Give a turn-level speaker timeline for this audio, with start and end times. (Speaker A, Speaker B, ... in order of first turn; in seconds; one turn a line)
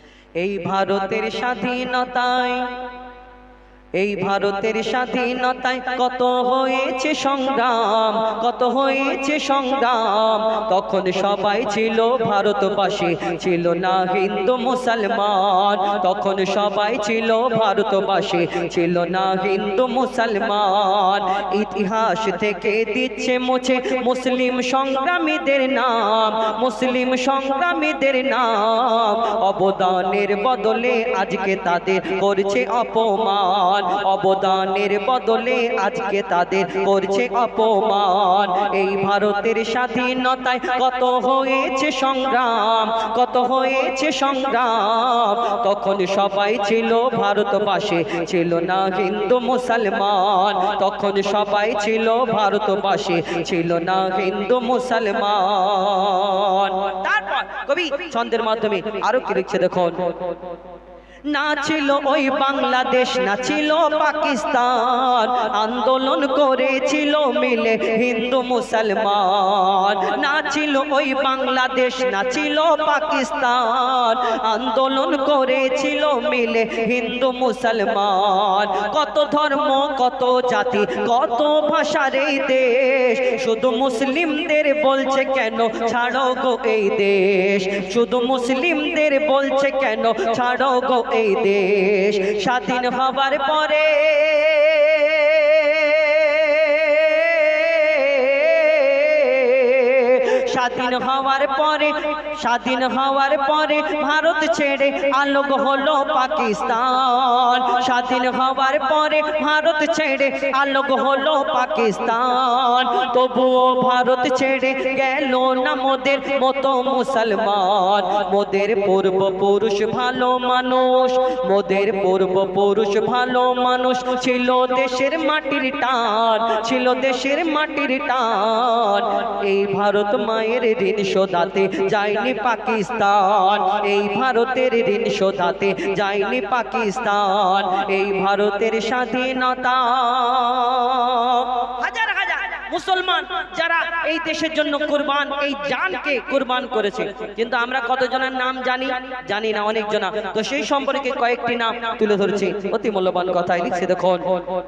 Speaker A: 0.4-2.7
Speaker A: 4.0-60.0
Speaker A: 61.3-154.4